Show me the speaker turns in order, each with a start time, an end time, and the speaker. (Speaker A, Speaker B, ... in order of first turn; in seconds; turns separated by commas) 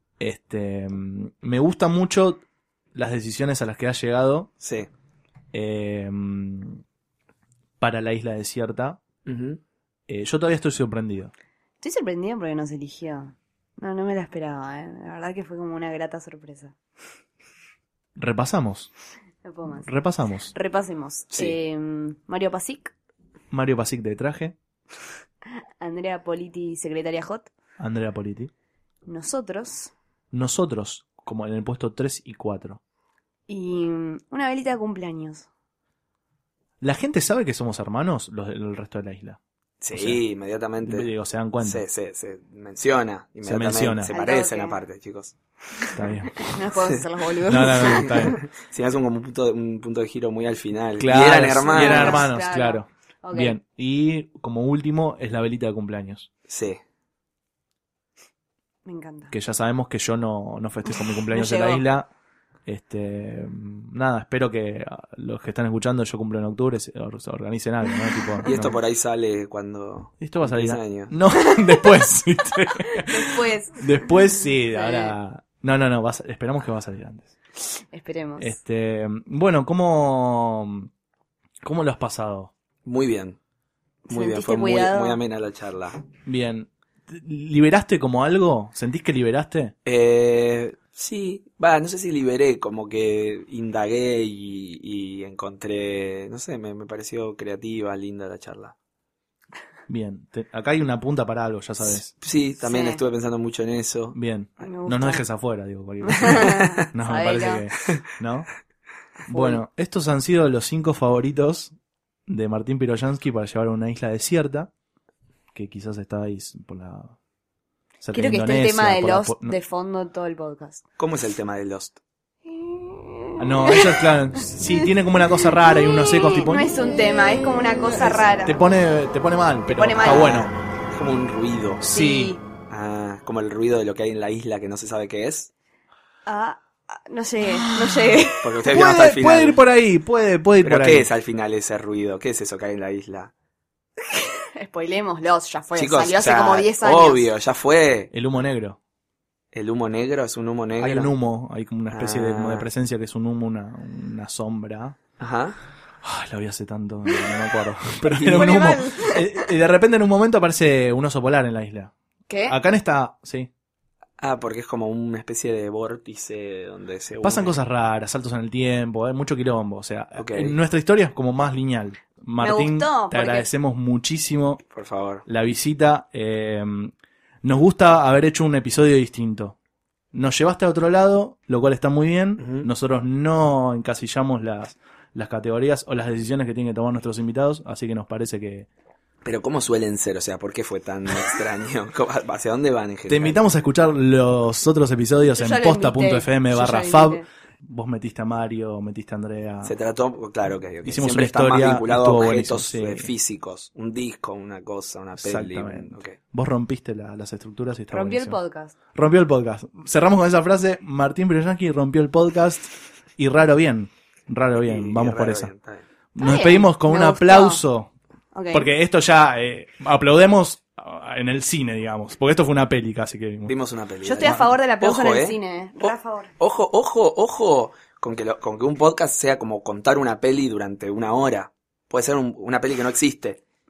Speaker A: 0.2-2.4, Speaker A: 2.9-4.5, Speaker B: 4.6-4.9, Speaker A: 5.5-6.8, Speaker A: 7.8-9.0, Speaker B: 9.2-9.6, Speaker A: 10.1-11.3, Speaker C: 11.8-16.7, Speaker A: 18.1-18.9, Speaker C: 19.4-19.9, Speaker A: 19.8-20.5, Speaker C: 20.5-22.9, Speaker A: 23.5-24.5, Speaker C: 25.8-27.5, Speaker A: 27.8-28.5, Speaker C: 29.1-29.9, Speaker A: 30.3-32.8, Speaker C: 33.5-35.5, Speaker A: 36.8-39.4, Speaker B: 39.8-41.1, Speaker A: 39.9-40.2, Speaker A: 40.8-41.8, Speaker B: 41.6-45.3, Speaker A: 43.4-44.1, Speaker C: 44.1-44.8, Speaker A: 45.9-46.5, Speaker C: 46.4-48.4, Speaker A: 47.5-48.4, Speaker B: 47.8-52.3, Speaker A: 51.0-56.3, Speaker C: 51.6-53.5, Speaker B: 56.5-56.8, Speaker C: 58.9-59.3, Speaker A: 59.3-62.1, Speaker C: 60.9-61.8, Speaker A: 62.6-68.8, Speaker B: 68.5-71.1, Speaker A: 70.2-77.3, Speaker C: 72.9-75.1, Speaker C: 77.9-78.5, Speaker A: 78.4-80.9, Speaker A: 81.6-82.5, Speaker B: 82.8-83.4, Speaker C: 84.1-85.2, Speaker B: 84.1-86.0, Speaker A: 86.2-89.7, Speaker B: 89.8-98.7, Speaker A: 99.9-102.1, Speaker B: 101.8-104.2, Speaker C: 102.6-103.0, Speaker A: 104.1-108.5, Speaker C: 104.6-105.2, Speaker C: 106.0-107.6, Speaker C: 109.3-109.6, Speaker A: 109.3-111.7, Speaker A: 112.3-114.7, Speaker A: 115.5-117.1, Speaker A: 118.0-119.5, Speaker C: 118.1-120.8, Speaker B: 121.0-122.0, Speaker C: 122.4-124.9, Speaker A: 123.4-126.7, Speaker C: 125.6-128.6, Speaker A: 127.6-130.5, Speaker C: 129.7-130.5, Speaker B: 130.0-131.8, Speaker A: 131.8-132.4, Speaker C: 131.9-132.4, Speaker B: 132.7-135.5, Speaker C: 136.2-138.4, Speaker A: 137.5-141.1, Speaker B: 138.4-139.6, Speaker B: 140.6-143.3, Speaker C: 144.1-147.3, Speaker B: 145.8-148.1, Speaker A: 148.1-148.8, Speaker B: 149.5-151.1, Speaker A: 150.8-155.0, Speaker B: 151.9-152.7, Speaker B: 155.2-155.6, Speaker A: 156.0-161.9, Speaker B: 158.1-158.5, Speaker C: 158.3-159.5, Speaker C: 162.3-162.6, Speaker A: 162.5-163.5, Speaker B: 164.2-167.5, Speaker A: 167.2-174.6, Speaker B: 170.2-170.5, Speaker C: 172.4-173.5, Speaker B: 174.7-175.2, Speaker A: 175.2-176.9, Speaker A: 177.4-179.5, Speaker A: 180.1-188.7, Speaker B: 182.4-182.7, Speaker B: 189.2-193.4, Speaker A: 193.1-199.7, Speaker C: 195.3-197.2, Speaker B: 199.6-206.1, Speaker A: 200.8-203.1, Speaker A: 205.2-208.3, Speaker C: 207.9-208.7, Speaker A: 208.9-215.5, Speaker B: 214.6-215.8, Speaker A: 216.1-217.9, Speaker C: 216.2-217.6, Speaker C: 218.3-218.7, Speaker A: 218.5-223.5, Speaker B: 223.4-233.4, Speaker C: 224.0-226.3